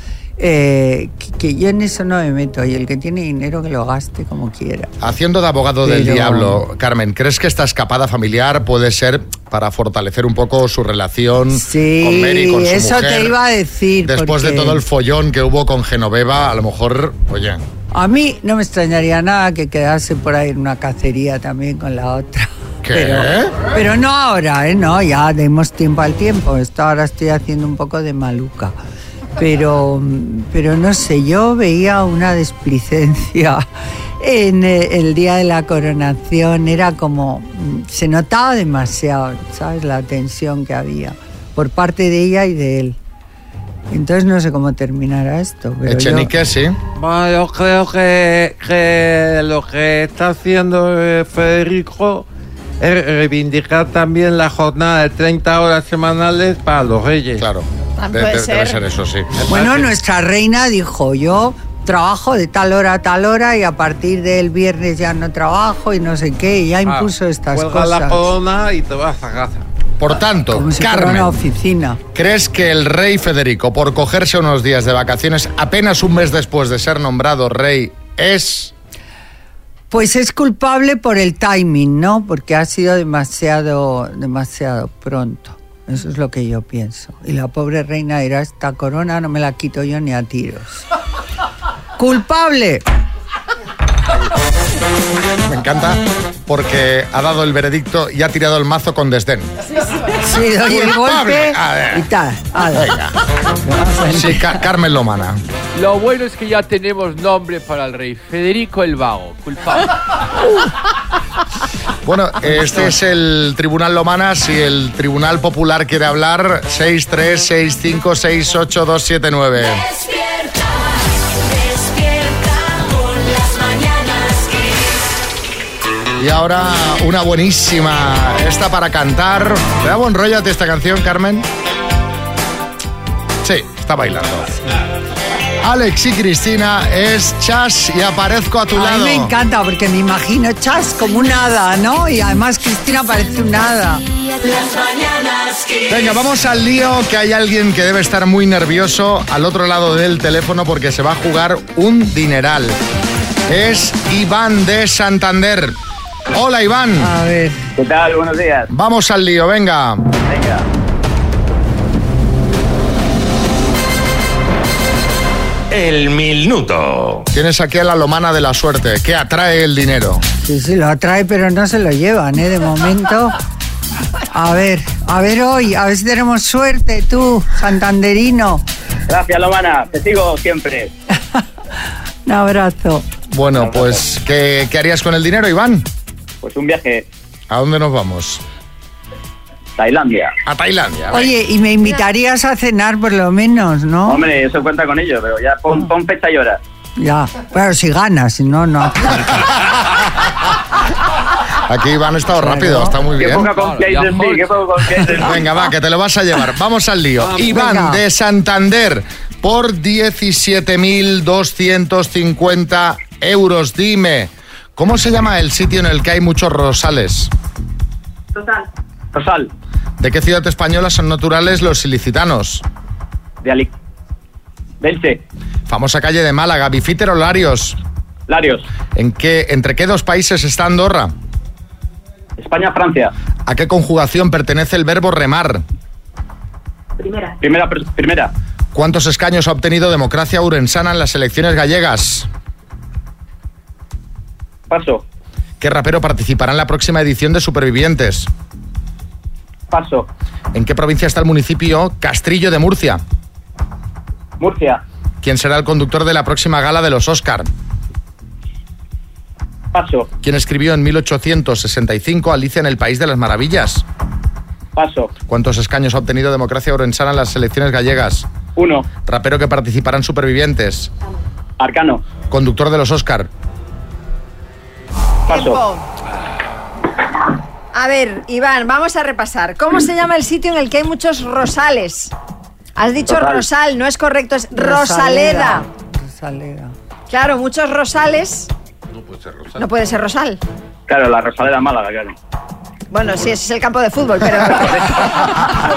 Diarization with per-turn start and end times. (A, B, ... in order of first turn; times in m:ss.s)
0:00.4-0:04.9 A
0:05.0-0:13.4 B
0:05.8-0:06.6 A
0:11.5-0:14.8 A
0:14.0-0:17.6 B
0:17.9-0:28.7 A
0:22.8-0:23.6 B
0:29.4-0:33.6 A
0:34.2-0:43.0 A
0:43.9-0:46.3 A
0:45.8-0:46.8 B
0:47.0-0:52.2 C
0:52.8-0:57.5 C
0:57.4-0:59.3 B
0:58.0-0:58.8 D
0:59.4-1:00.0 C
0:59.5-1:08.3 A
1:06.8-1:09.6 C
1:10.0-1:11.4 B
1:10.5-1:12.0 A
1:12.1-1:18.7 B
1:19.9-1:30.8 A
1:32.0-1:32.8 A
1:35.5-1:39.5 B
1:40.1-1:43.0 A
1:40.7-1:42.0 B
1:42.7-1:43.1 B
1:43.6-1:44.6 A
1:44.1-1:45.4 B
1:45.7-1:49.9 E
1:52.0-1:59.8 B
2:06.2-2:11.4 B
2:13.4-2:14.6 B
2:15.6-2:19.3 B
2:18.7-2:24.0 A
2:25.9-2:32.8 B
2:33.5-2:35.8 B
2:36.3-2:37.1 B
2:37.0-2:37.6 A
2:37.8-2:38.7 F
2:38.7-2:40.0 B
2:40.3-2:40.6 F
2:45.7-2:47.2 C
2:47.3-2:50.2 B
2:50.4-2:53.3 A
2:54.3-2:58.6 A
2:59.1-3:00.9 F
3:02.2-3:03.0 A
3:03.3-3:05.8 B
3:03.6-3:03.9 F
3:06.4-3:07.0 F
3:07.5-3:08.4 B
3:09.8-3:10.3 F
3:10.4-3:11.3 B
3:11.1-3:14.2 A
3:14.0-3:16.6 F
3:17.0-3:19.4 A
3:21.7-3:23.5 B
3:22.3-3:23.1 A
3:23.2-3:25.3 F
3:23.5-3:24.6 E
3:25.2-3:37.3 B
3:27.3-3:28.0 A
3:38.3-3:39.5 F
3:40.0-3:42.6 B
3:43.4-3:43.7 F
3:44.8-3:45.2 F
3:45.7-3:47.8 B
3:48.3-3:48.6 F
3:49.0-3:51.1 B
3:52.4-3:53.1 F
3:53.5-3:55.6 B
3:57.4-3:58.3 F
3:58.7-4:02.3 B
4:04.7-4:05.0 F
4:05.6-4:08.3 B
4:09.7-4:10.0 F
4:10.5-4:13.0 B
4:14.4-4:14.8 F
4:15.2-4:17.5 B
4:19.7-4:20.1 F
4:20.2-4:23.8 B
4:24.8-4:25.1 F
4:25.3-4:28.2 B
4:28.6-4:28.8 F
4:29.0-4:30.9 B
4:31.6-4:32.0 F
4:32.3-4:33.3 B
4:35.3-4:35.6 F
4:35.3-4:35.8 D
4:37.7-4:42.1 D
4:42.8-4:45.6 D
4:43.1-4:43.4 F
4:44.5-4:46.7 A
4:47.1-4:48.5 D
4:48.9-4:49.7 C
4:49.6-4:50.4 D
4:50.9-4:52.1 F
4:52.9-4:55.5 D